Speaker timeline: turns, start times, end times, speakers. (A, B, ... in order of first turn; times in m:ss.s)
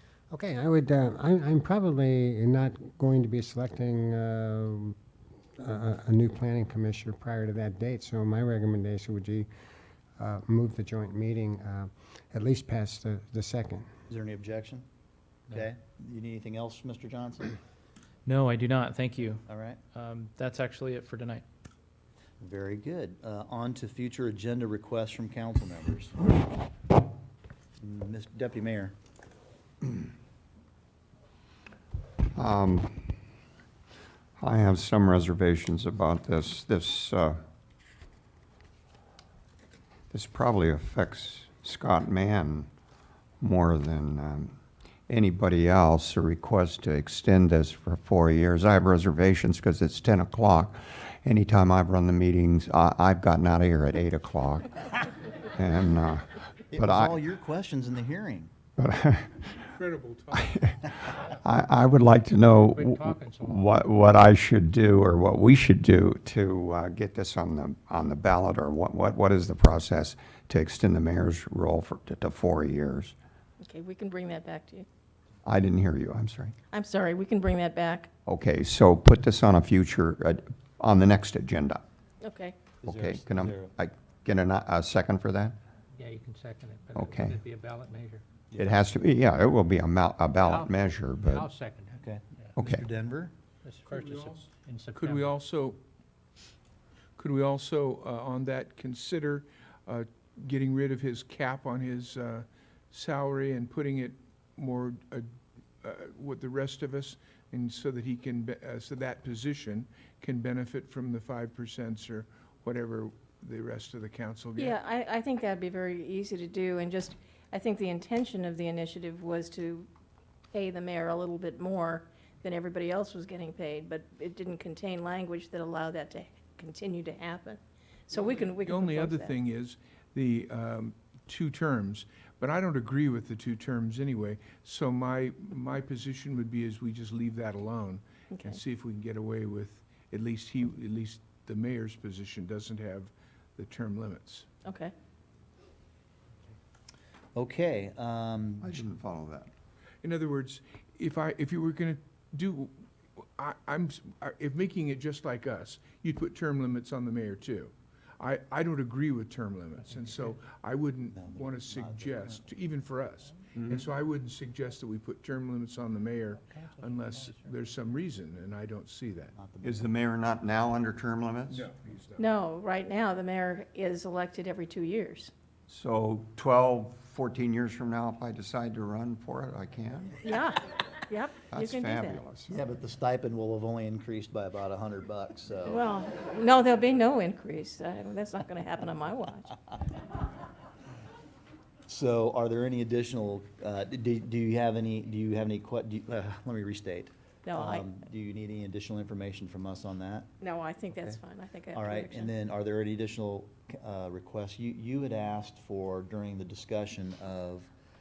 0:00.3-0:04.9 A
0:05.6-0:09.5 A
0:10.2-0:13.9 A
0:14.1-0:14.9 B
0:15.5-0:17.6 B
0:18.2-0:21.4 C
0:19.4-0:19.8 B
0:22.4-0:26.2 B
0:27.8-0:29.0 B
0:32.4-0:33.1 D
0:34.4-0:37.4 D
0:40.1-0:42.7 D
0:43.4-0:44.5 D
0:45.1-0:57.2 D
0:56.7-0:58.5 B
0:58.8-0:59.7 D
0:59.7-1:00.7 E
1:00.3-1:13.1 D
1:02.7-1:03.7 F
1:13.6-1:14.9 G
1:15.4-1:16.5 D
1:16.7-1:18.1 G
1:18.2-1:21.8 D
1:22.2-1:22.6 G
1:22.8-1:23.7 B
1:22.8-1:25.6 D
1:26.0-1:28.2 F
1:26.9-1:27.4 D
1:28.5-1:29.0 B
1:28.6-1:31.5 D
1:30.4-1:32.0 F
1:31.9-1:33.3 B
1:32.6-1:32.8 D
1:33.6-1:35.4 F
1:33.9-1:35.8 E
1:37.2-1:45.3 E
1:45.8-1:54.8 E
1:54.6-1:59.9 G
2:00.5-2:09.4 G
2:08.6-2:24.5 E
2:18.3-2:18.6 G
2:24.6-2:24.9 G
2:27.3-2:28.7 B
2:28.6-2:29.5 D
2:30.0-2:32.7 E
2:33.4-2:49.3 E
2:39.8-2:40.3 F
2:41.1-2:42.4 B
2:43.6-2:43.8 D
2:46.5-2:47.6 F
2:49.3-2:49.9 B
2:49.6-2:51.7 D
2:51.5-2:52.2 E
2:52.2-2:55.3 G
2:55.7-3:00.2 D
3:00.2-3:02.2 G
3:01.5-3:02.5 D
3:02.5-3:05.8 B
3:05.6-3:09.5 G
3:11.9-3:20.3 B
3:17.4-3:17.9 G
3:20.4-3:22.3 G
3:21.7-3:27.7 B